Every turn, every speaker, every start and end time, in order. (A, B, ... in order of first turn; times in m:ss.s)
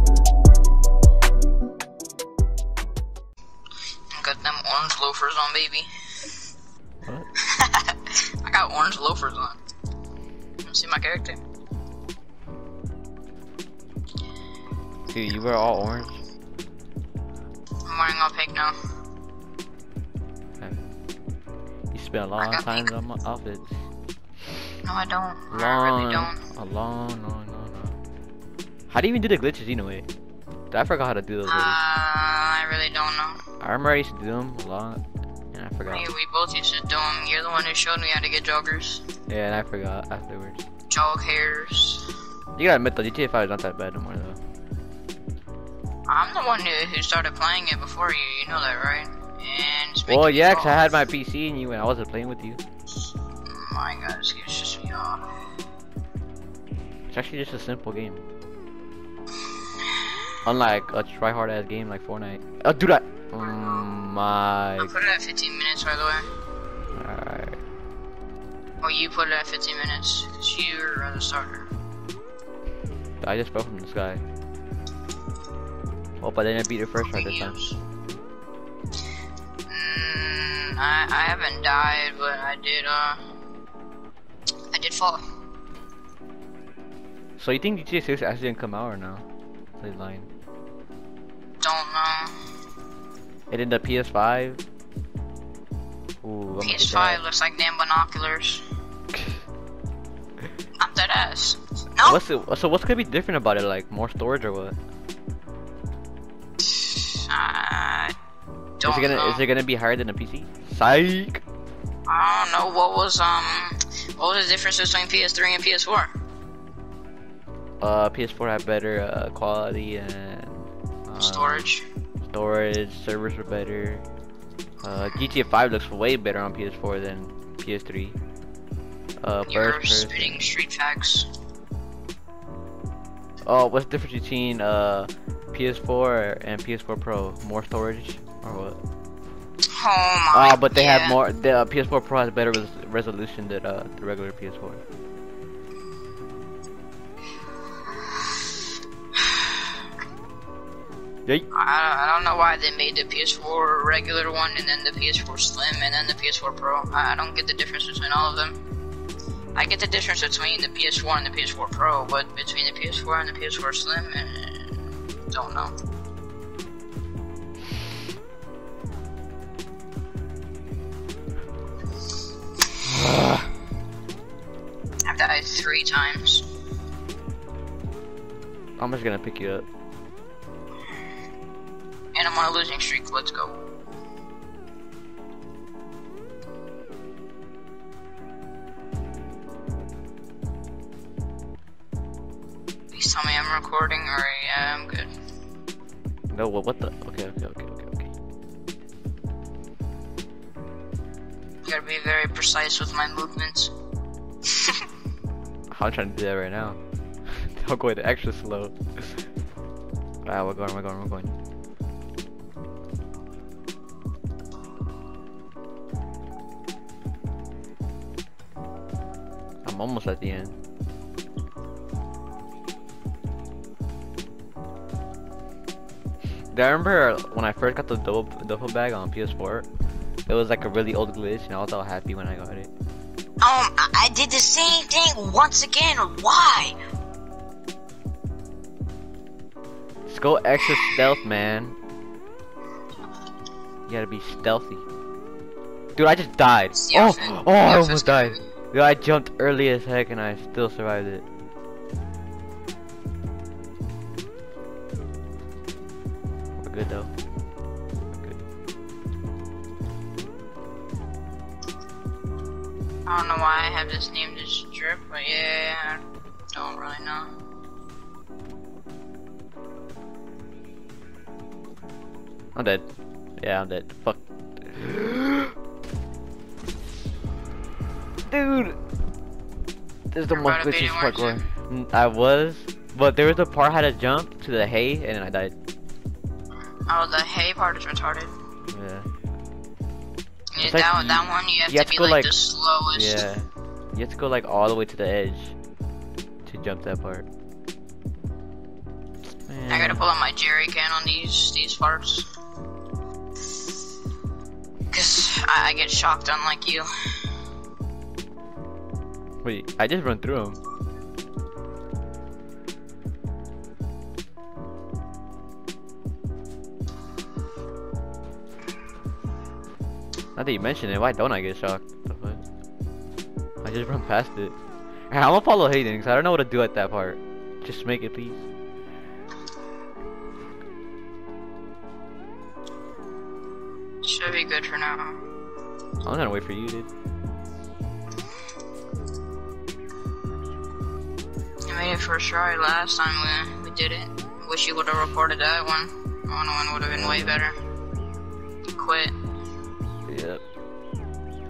0:04.1-0:05.9 A
0:07.4-0:09.6 A
0:10.6-0:11.4 A
0:15.1-0:16.2 B
0:17.8-0:18.8 A
0:20.6-0:21.0 B
0:21.9-0:23.7 B
0:22.4-0:22.9 A
0:24.8-0:26.4 A
0:25.5-0:28.0 B
0:28.9-0:30.1 B
0:30.7-0:31.8 B
0:31.4-0:33.4 A
0:33.6-0:36.1 B
0:35.9-0:39.1 A
0:39.3-0:40.6 B
0:40.9-0:42.1 A
0:42.6-0:44.4 B
0:46.1-0:50.9 A
0:50.1-0:52.6 B
0:53.5-0:55.3 A
0:57.1-0:58.2 B
0:59.9-1:00.4 A
1:00.4-1:04.9 B
1:03.4-1:03.9 A
1:04.8-1:06.3 A
1:06.9-1:07.6 B
1:08.8-1:11.7 A
1:13.2-1:14.2 B
1:16.2-1:17.6 B
1:17.0-1:17.8 A
1:19.7-1:23.2 A
1:24.7-1:25.2 A
1:27.4-1:29.2 B
1:29.8-1:30.3 B
1:31.6-1:32.3 A
1:33.5-1:34.6 B
1:36.2-1:37.2 B
1:36.6-1:38.6 A
1:40.8-1:42.2 A
1:42.0-1:44.8 B
1:46.6-1:48.1 A
1:48.8-1:49.4 A
1:48.8-1:51.4 B
1:52.1-1:56.1 A
1:57.8-2:01.7 B
2:01.2-2:01.8 A
2:02.2-2:04.0 B
2:04.8-2:08.2 B
2:09.2-2:10.5 B
2:09.4-2:11.3 A
2:13.4-2:18.8 B
2:19.7-2:21.2 A
2:20.3-2:24.8 B
2:29.1-2:29.7 A
2:31.5-2:38.6 A
2:39.5-2:45.7 A
2:52.8-2:53.5 B
2:55.0-2:56.4 A
2:58.8-2:59.6 B
3:02.1-3:03.6 A
3:12.9-3:15.1 A
3:16.3-3:18.1 B
3:21.6-3:23.7 A
3:24.5-3:24.8 A
3:25.7-3:29.3 B
3:30.2-3:31.3 B
3:39.6-3:40.5 B
3:46.5-3:49.7 B
3:50.3-3:52.7 B
3:53.4-3:56.7 A
4:00.0-4:01.8 B
4:03.9-4:04.8 B
4:05.9-4:11.2 B
4:06.7-4:08.4 A
4:16.6-4:17.1 B
4:23.0-4:27.3 A
4:32.5-4:32.8 B
4:33.4-4:35.5 B
4:38.3-4:38.8 B
4:40.1-4:45.5 B
4:40.3-4:41.4 A
4:46.9-4:48.3 A
4:48.7-4:49.1 B
4:50.5-4:53.2 A
4:50.6-4:52.4 B
4:52.9-4:55.6 B
4:56.4-4:57.3 B
4:59.3-5:00.1 B
4:59.7-5:02.3 A
5:04.9-5:07.2 A
5:09.4-5:10.6 B
5:20.4-5:22.4 B
5:23.6-5:24.5 B
5:25.1-5:28.4 B
5:34.0-5:35.2 A
5:36.0-5:36.9 B
5:41.7-5:47.6 A
5:46.9-5:47.5 B
5:48.8-5:49.1 A
5:50.1-5:50.4 B